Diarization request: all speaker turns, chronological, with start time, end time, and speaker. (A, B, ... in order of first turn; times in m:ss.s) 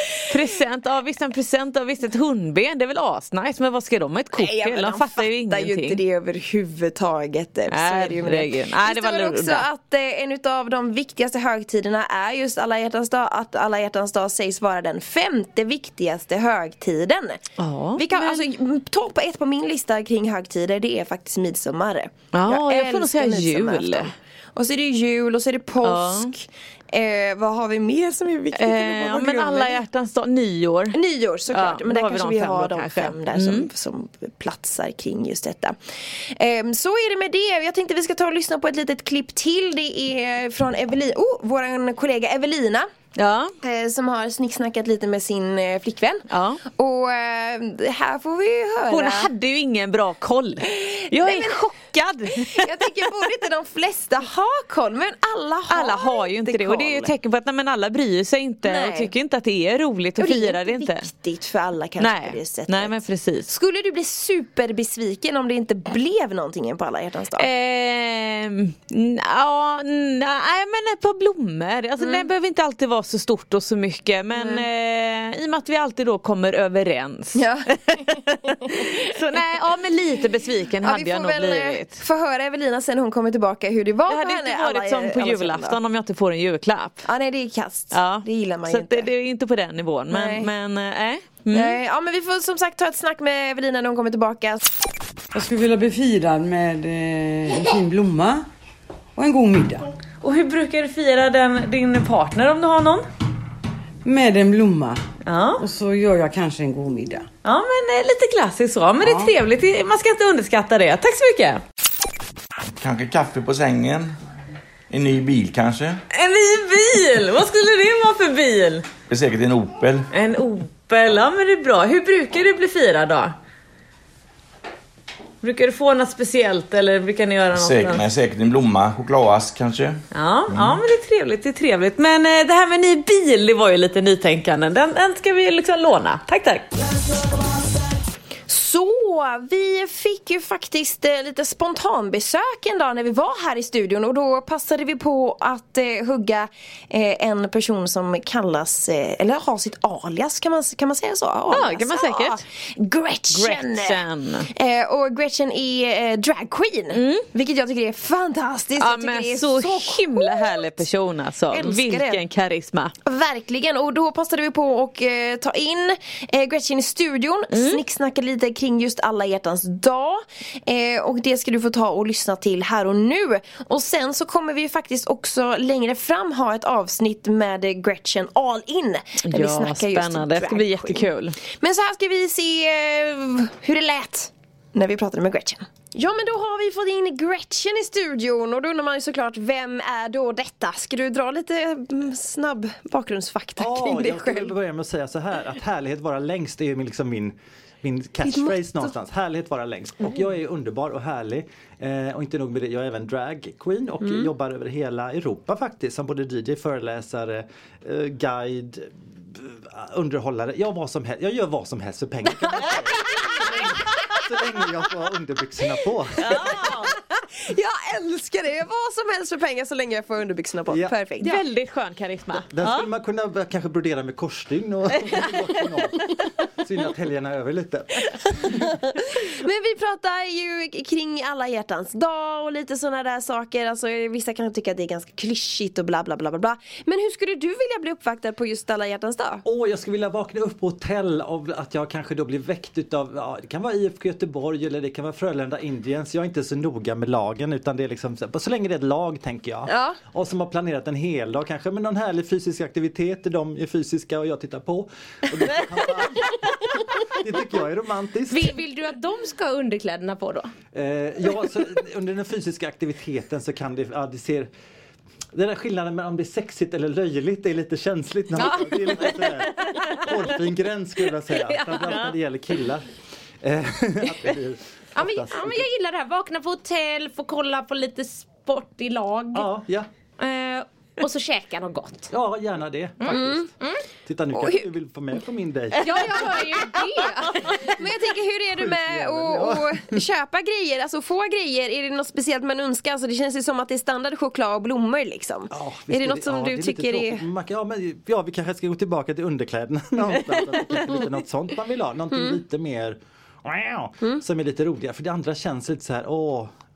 0:00.2-0:06.0 A
0:04.3-0:17.4 B
0:07.7-0:09.6 A
0:17.6-0:18.4 A
0:18.0-0:29.8 B
0:22.3-0:24.1 A
0:25.8-0:26.3 A
0:28.5-0:31.0 A
0:30.9-0:42.9 B
0:31.5-0:33.7 A
0:43.2-0:43.5 A
0:43.6-0:49.3 B
0:46.3-0:46.6 A
0:48.9-0:52.7 A
0:50.6-0:51.7 B
0:52.3-0:57.1 B
0:55.7-1:01.1 A
0:58.6-0:59.1 B
1:00.2-1:03.0 B
1:02.0-1:03.5 A
1:03.5-1:07.5 B
1:07.4-1:22.0 A
1:12.0-1:12.3 B
1:14.3-1:14.6 B
1:17.3-1:19.0 B
1:20.8-1:25.8 B
1:24.1-1:27.0 A
1:27.0-1:29.1 B
1:27.9-1:31.8 A
1:30.1-1:30.5 B
1:31.5-1:34.6 B
1:35.3-1:38.4 C
1:39.2-1:39.9 C
1:40.2-1:43.0 A
1:44.0-1:45.0 C
1:45.2-1:45.6 A
1:45.6-1:47.3 C
1:47.4-1:51.6 A
1:49.0-1:49.3 C
1:52.8-1:54.2 D
1:54.9-1:56.0 D
1:56.1-1:58.8 A
1:59.1-2:00.1 D
2:00.1-2:03.3 A
2:05.4-2:08.0 A
2:07.5-2:10.8 D
2:10.1-2:16.7 A
2:18.5-2:40.8 B
2:31.5-2:32.4 A
2:33.3-2:34.5 A
2:36.9-2:37.3 A
2:38.8-2:42.9 A
2:41.5-2:42.2 B
2:43.0-3:14.5 B
2:47.5-2:47.8 A
2:59.2-3:01.4 A
3:13.6-3:36.5 E
3:18.2-3:18.9 B
3:24.0-3:24.3 B
3:36.2-3:36.9 A
3:36.3-3:41.4 B
3:41.2-3:42.9 A
3:42.4-3:48.8 E
3:48.1-3:59.4 B
3:59.4-4:18.6 E
4:09.7-4:10.0 B
4:18.3-4:20.5 F
4:20.7-4:24.5 E
4:25.3-4:32.8 E
4:28.3-4:30.4 F
4:31.3-4:32.1 F
4:33.4-4:35.6 E
4:35.0-4:39.5 F
4:39.3-4:39.9 E
4:40.2-4:42.1 F
4:42.1-4:43.5 E
4:43.0-4:43.8 F
4:43.1-4:43.4 B
4:44.0-4:47.9 E
4:44.4-4:44.7 B
4:45.8-4:47.5 F
4:47.6-4:57.2 B
4:48.6-4:50.0 E
4:55.5-5:06.5 E